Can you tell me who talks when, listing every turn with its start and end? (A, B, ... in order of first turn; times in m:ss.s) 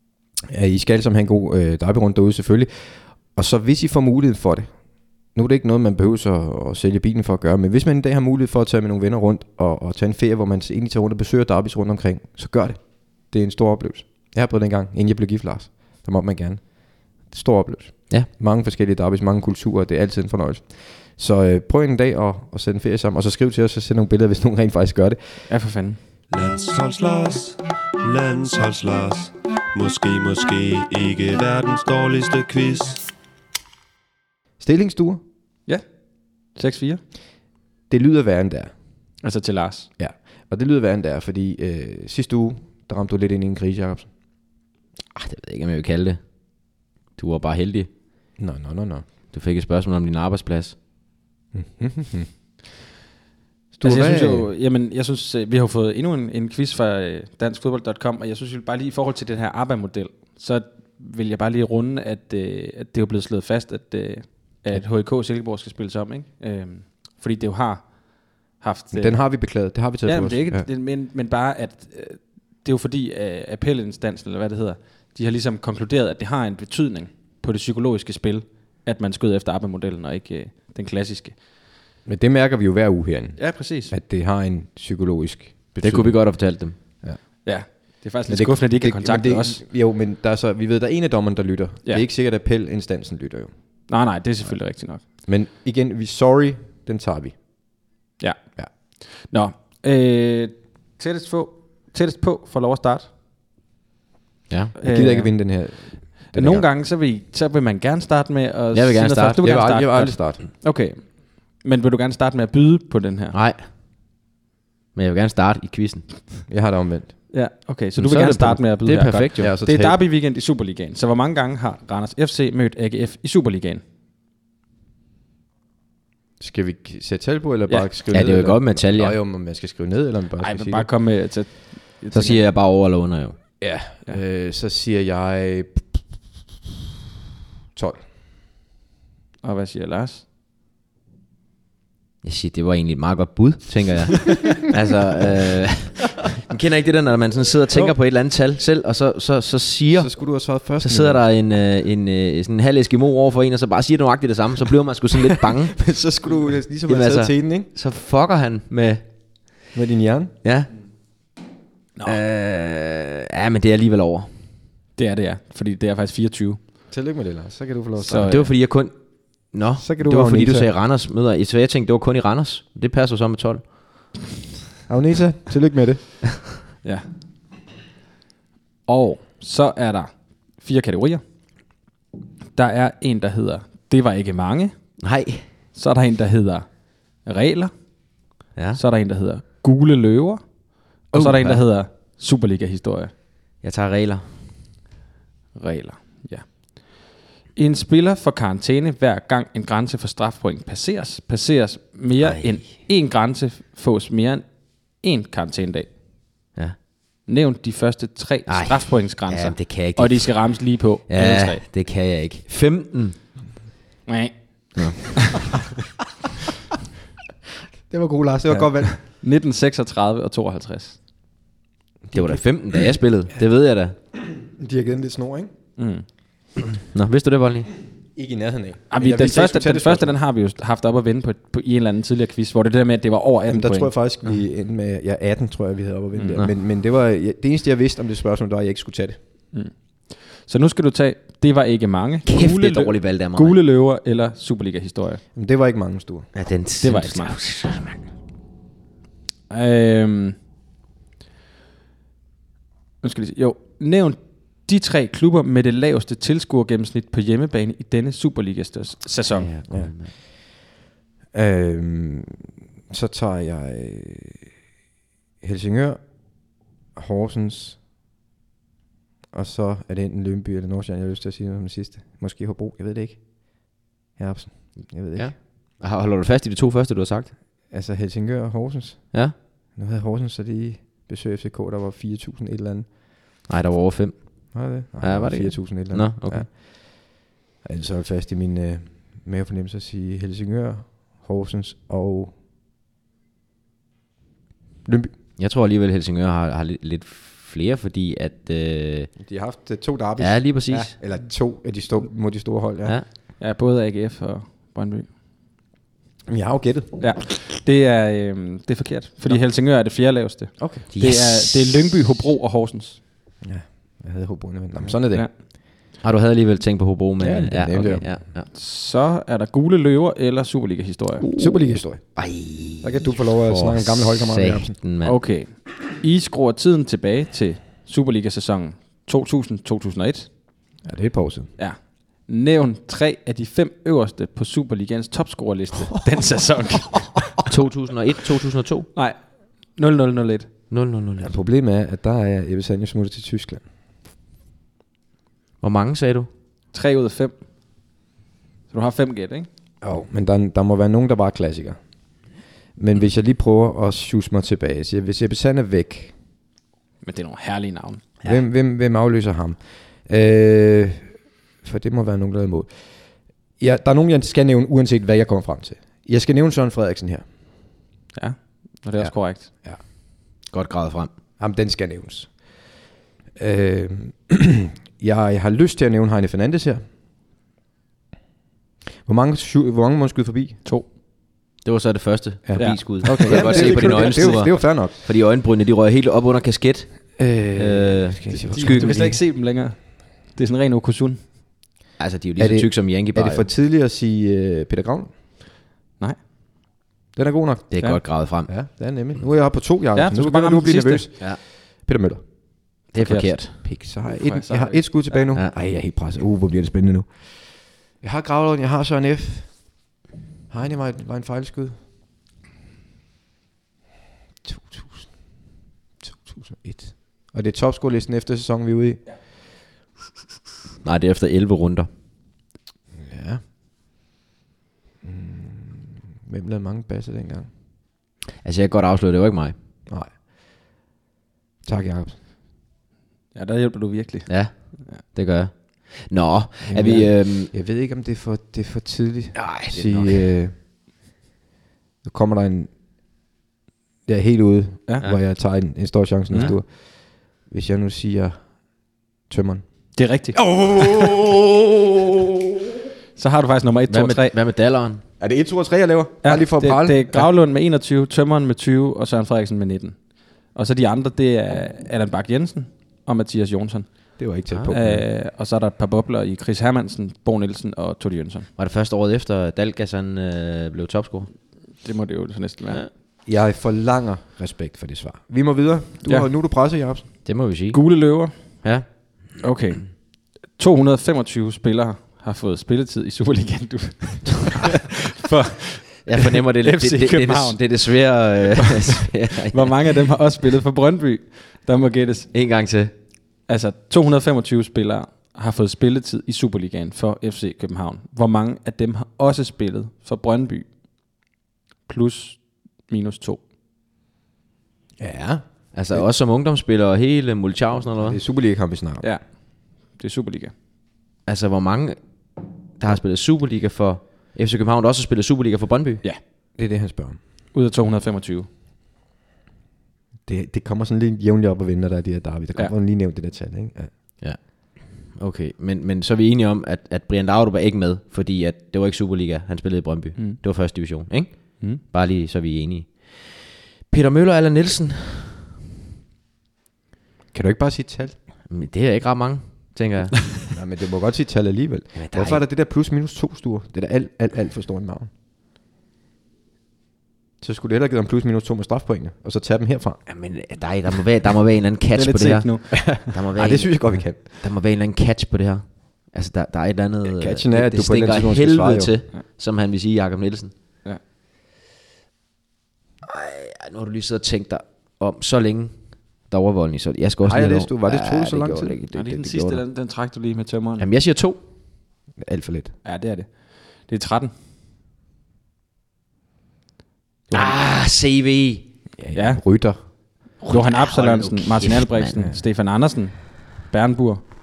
0:00.5-0:25.5 A
0:25.5-0:26.0 B
0:26.3-0:33.1 C
0:34.6-0:35.2 A
0:36.3-0:37.0 B
0:37.9-0:38.7 A
0:39.2-0:39.9 B
0:40.0-0:44.1 A
0:45.1-0:47.9 D
0:48.4-0:49.1 A
0:49.3-0:50.7 D
0:51.5-0:52.3 A
0:53.7-0:54.5 A
0:53.8-1:21.4 B
1:08.9-1:10.7 A
1:22.0-1:33.5 A
1:23.4-1:23.9 B
1:25.8-1:26.8 D
1:27.4-1:29.6 B
1:33.9-1:35.0 B
1:35.2-1:37.4 A
1:38.2-1:43.1 B
1:44.8-1:53.3 B
1:44.8-1:46.6 A
1:48.7-1:49.4 D
1:49.4-1:50.4 A
1:53.3-1:53.7 D
1:54.9-1:56.0 D
1:56.5-1:57.2 A
1:57.3-2:03.8 B
1:58.0-1:59.5 D
1:59.4-2:00.0 A
2:06.4-2:10.9 A
2:08.1-2:09.2 D
2:10.4-2:12.4 B
2:12.1-2:13.4 D
2:13.6-2:16.0 A
2:17.7-2:18.0 A
2:19.4-2:20.2 B
2:22.2-2:35.8 D
2:29.9-2:31.2 A
2:35.8-2:37.7 A
2:36.9-2:39.6 D
2:39.7-2:40.3 A
2:40.4-2:40.7 D
2:42.0-2:44.3 D
2:45.0-2:46.6 B
2:46.9-2:48.3 A
2:48.0-2:48.5 B
2:48.2-2:53.7 D
2:49.8-2:50.7 A
2:54.9-2:56.4 A
2:58.9-3:01.2 B
3:02.6-3:04.7 B
3:05.0-3:05.4 D
3:05.7-3:07.7 B
3:08.8-3:13.1 B
3:11.1-3:11.6 D
3:13.6-3:14.2 D
3:15.6-3:26.0 B
3:22.2-3:22.6 D
3:27.3-3:31.6 B
3:28.5-3:33.2 D
3:34.1-3:35.5 B
3:37.9-3:38.9 A
3:38.5-3:41.0 B
3:42.1-3:42.4 A
3:42.1-3:44.0 D
3:44.2-3:45.5 A
3:45.8-3:46.1 B
3:46.9-3:47.7 D
3:48.1-3:50.1 A
3:48.9-3:54.1 B
3:53.5-3:59.2 A
3:59.5-4:05.2 B
4:02.2-4:03.6 D
4:05.3-4:06.3 A
4:06.3-4:08.0 D
4:06.8-4:07.4 B
4:09.5-4:10.4 B
4:13.0-4:19.5 B
4:19.3-4:20.1 D
4:21.3-4:24.5 A
4:25.4-4:27.8 A
4:29.3-4:35.4 A
4:35.1-4:37.3 D
4:37.7-4:42.9 A
4:43.5-4:46.5 D
4:44.5-4:52.3 A
4:54.8-4:55.1 A
4:55.4-4:59.1 D
4:59.2-5:03.0 A
5:00.2-5:00.9 D
5:03.4-5:05.1 B
5:06.3-5:07.0 A
5:07.0-5:13.0 B
5:10.9-5:11.6 D
5:13.4-5:15.3 A
5:16.0-5:18.5 D
5:17.2-5:18.2 A
5:18.5-5:21.2 B
5:21.3-5:22.2 A
5:22.1-5:25.2 D
5:22.8-5:24.7 A
5:25.0-5:30.3 B
5:30.8-5:31.5 A
5:31.6-5:37.4 B
5:37.5-5:38.9 D
5:38.9-5:40.5 B
5:40.7-5:41.3 D
5:41.2-5:43.6 A
5:45.6-5:46.3 D
5:46.7-5:47.3 B
5:48.7-5:49.5 B
5:49.8-5:51.8 A
5:52.8-5:56.1 A
5:57.0-5:58.1 B
5:58.2-6:07.2 A
6:08.1-6:09.5 B
6:09.0-6:09.8 A
6:10.4-6:11.1 D
6:11.4-6:12.8 A
6:13.4-6:16.8 A
6:19.0-6:20.6 A
6:21.6-6:29.0 D
6:22.4-6:24.9 A
6:22.6-6:24.5 B
6:27.2-6:29.2 A
6:28.4-6:31.2 B
6:32.0-6:33.5 D
6:32.4-6:35.1 A
6:37.1-6:42.2 A
6:37.7-6:38.5 D
6:39.9-6:41.1 B
6:42.9-6:43.5 D
6:43.0-6:45.3 B
6:43.6-6:49.8 A
6:50.5-6:51.8 A
6:54.4-6:55.5 A
6:56.0-6:59.0 A
7:00.8-7:01.9 D
7:03.0-7:03.4 A
7:05.0-7:07.5 A
7:08.4-7:09.5 D
7:09.9-7:10.2 A
7:11.6-7:12.2 A
7:13.3-7:15.0 B
7:14.3-7:17.5 D
7:16.6-7:20.6 A
7:19.3-7:20.3 D
7:22.0-7:22.7 A
7:24.0-7:32.3 A
7:26.3-7:26.6 D
7:29.9-7:30.4 B
7:33.2-7:34.3 B
7:33.9-7:35.0 D
7:35.2-7:37.3 A
7:36.2-7:48.5 B
7:44.2-7:45.0 A
7:48.6-7:51.3 D
7:51.8-7:52.8 B
7:53.2-7:57.1 A
7:57.2-7:57.8 D
7:57.7-7:58.6 B
7:58.6-7:59.1 D
7:59.4-8:12.3 B
8:06.0-8:09.7 D
8:12.3-8:12.9 D
8:13.5-8:20.7 B
8:21.9-8:23.4 B
8:25.0-8:26.0 A
8:25.7-8:28.2 D
8:28.0-8:29.1 A
8:29.0-8:30.5 B
8:31.2-8:32.0 D
8:32.8-8:36.0 D
8:36.6-8:37.2 A
8:37.5-8:38.5 B
8:40.2-8:43.9 A
8:44.2-8:55.4 D
8:57.3-8:58.2 A
8:58.5-9:00.2 D
9:00.5-9:05.1 A
9:01.9-9:02.4 D
9:07.4-9:10.0 A
9:10.1-9:20.5 D
9:11.9-9:13.0 B
9:12.9-9:14.3 A
9:17.0-9:19.0 A
9:23.0-9:29.6 D
9:27.2-9:28.8 A
9:28.9-9:30.8 B
9:30.8-9:31.4 D
9:32.2-9:32.7 A
9:32.8-9:34.3 B
9:37.3-9:37.6 B
9:37.3-9:38.7 D
9:39.0-9:39.8 A
9:39.1-9:39.9 B
9:40.4-9:42.2 D
9:40.5-9:44.2 B